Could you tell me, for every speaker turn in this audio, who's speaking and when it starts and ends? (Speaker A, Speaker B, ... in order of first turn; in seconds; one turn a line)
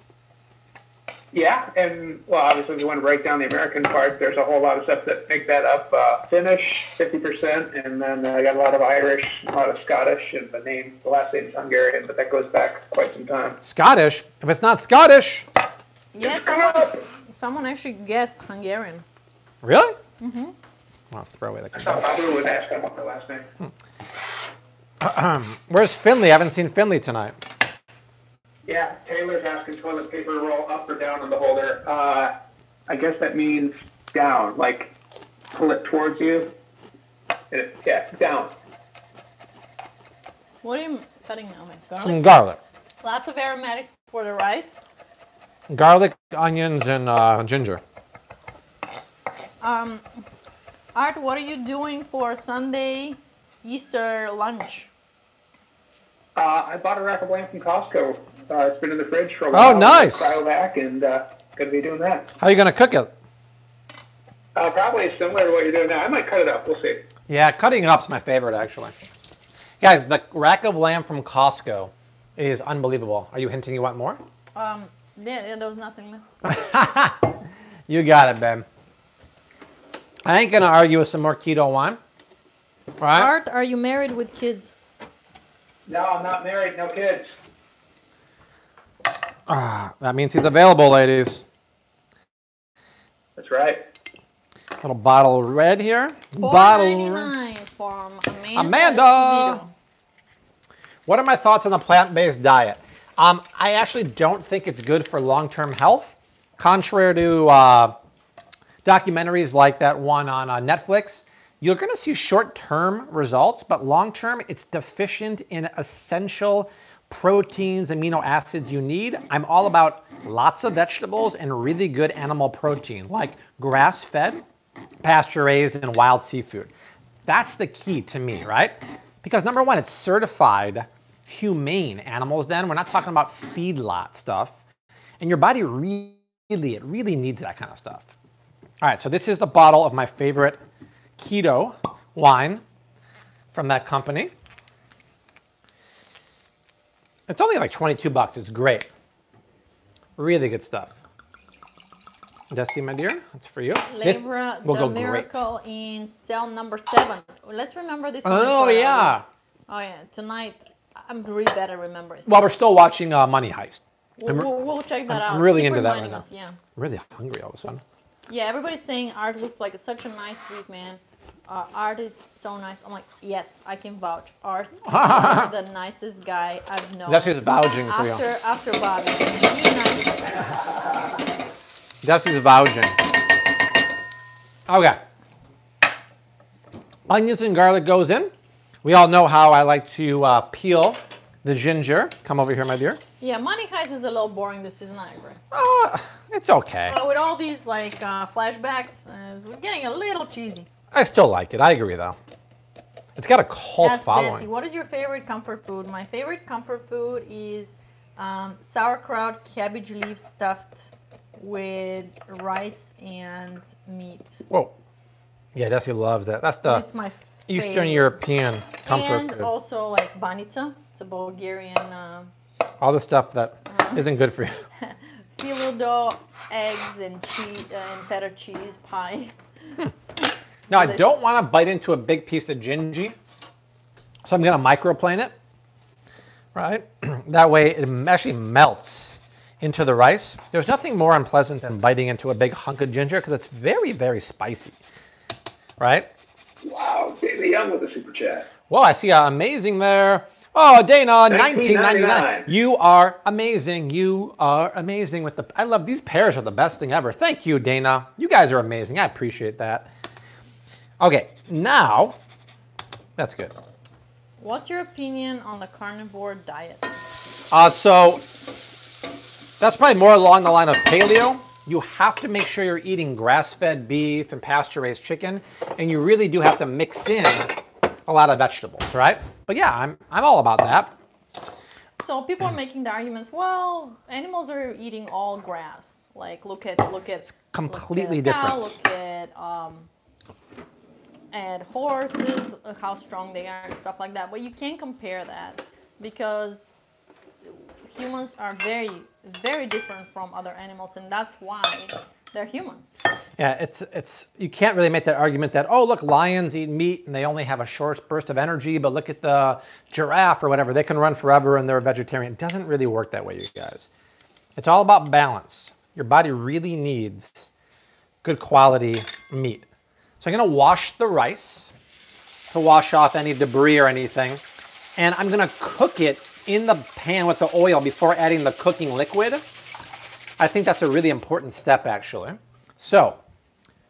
Speaker A: 1.3-13.6
Speaker B: 13.6-15.5
Speaker C: 16.1-19.0
Speaker A: 16.2-17.0
Speaker B: 19.6-20.0
Speaker C: 20.2-20.5
Speaker B: 21.1-22.1
Speaker A: 21.7-23.5
Speaker B: 25.0-27.4
Speaker A: 28.6-32.3
Speaker A: 32.9-34.9
Speaker A: 35.5-36.5
Speaker A: 37.5-38.5
Speaker C: 40.6-42.2
Speaker B: 42.0-42.6
Speaker C: 43.0-44.8
Speaker B: 45.7-47.8
Speaker C: 49.6-50.0
Speaker C: 50.9-54.9
Speaker A: 56.3-62.3
Speaker B: 59.5-60.4
Speaker B: 62.4-63.1
Speaker A: 64.5-67.0
Speaker B: 67.3-68.9
Speaker B: 69.8-74.2
Speaker C: 74.5-76.4
Speaker B: 76.4-78.7
Speaker B: 80.2-82.0
Speaker B: 83.0-83.3
Speaker C: 83.1-84.7
Speaker A: 85.9-87.3
Speaker B: 89.5-91.4
Speaker A: 93.4-93.8
Speaker B: 94.8-97.3
Speaker C: 96.4-99.7
Speaker B: 98.5-99.6
Speaker B: 101.0-107.9
Speaker B: 108.8-124.4
Speaker B: 125.0-126.7
Speaker B: 127.3-134.6
Speaker B: 135.2-138.1
Speaker B: 138.8-140.6
Speaker B: 141.2-142.6
Speaker B: 143.5-144.3
Speaker B: 147.3-148.9
Speaker B: 150.2-150.9
Speaker B: 152.5-155.4
Speaker C: 153.9-159.2
Speaker B: 158.2-159.2
Speaker C: 159.7-162.4
Speaker B: 162.2-164.5
Speaker C: 164.2-166.6
Speaker B: 165.1-166.2
Speaker B: 166.8-167.8
Speaker C: 168.3-180.5
Speaker B: 174.8-175.5
Speaker B: 177.1-178.2
Speaker B: 182.0-183.0
Speaker B: 184.7-185.0
Speaker B: 187.1-188.3
Speaker B: 188.8-193.0
Speaker C: 193.2-195.4
Speaker B: 195.5-197.0
Speaker C: 196.8-200.7
Speaker B: 200.9-202.2
Speaker B: 203.2-204.5
Speaker C: 203.8-214.4
Speaker B: 214.5-214.7
Speaker B: 215.5-216.8
Speaker C: 216.6-218.2
Speaker B: 217.5-219.5
Speaker C: 218.8-222.3
Speaker B: 222.8-224.6
Speaker C: 223.7-224.1
Speaker C: 224.8-229.3
Speaker C: 230.7-231.2
Speaker B: 230.7-233.2
Speaker B: 234.2-235.3
Speaker B: 236.5-244.8
Speaker B: 245.8-246.1
Speaker A: 246.6-248.5
Speaker B: 248.7-259.9
Speaker A: 251.3-252.5
Speaker B: 261.0-262.1
Speaker B: 263.2-263.5
Speaker C: 264.4-266.9
Speaker B: 267.5-268.2
Speaker B: 269.6-280.9
Speaker C: 282.0-289.9
Speaker B: 287.3-288.8
Speaker C: 291.3-296.8
Speaker C: 297.4-303.0
Speaker B: 303.4-313.9
Speaker B: 314.6-317.5
Speaker B: 318.2-319.6
Speaker B: 320.2-321.7
Speaker B: 322.5-324.4
Speaker B: 325.0-329.5
Speaker B: 330.4-333.2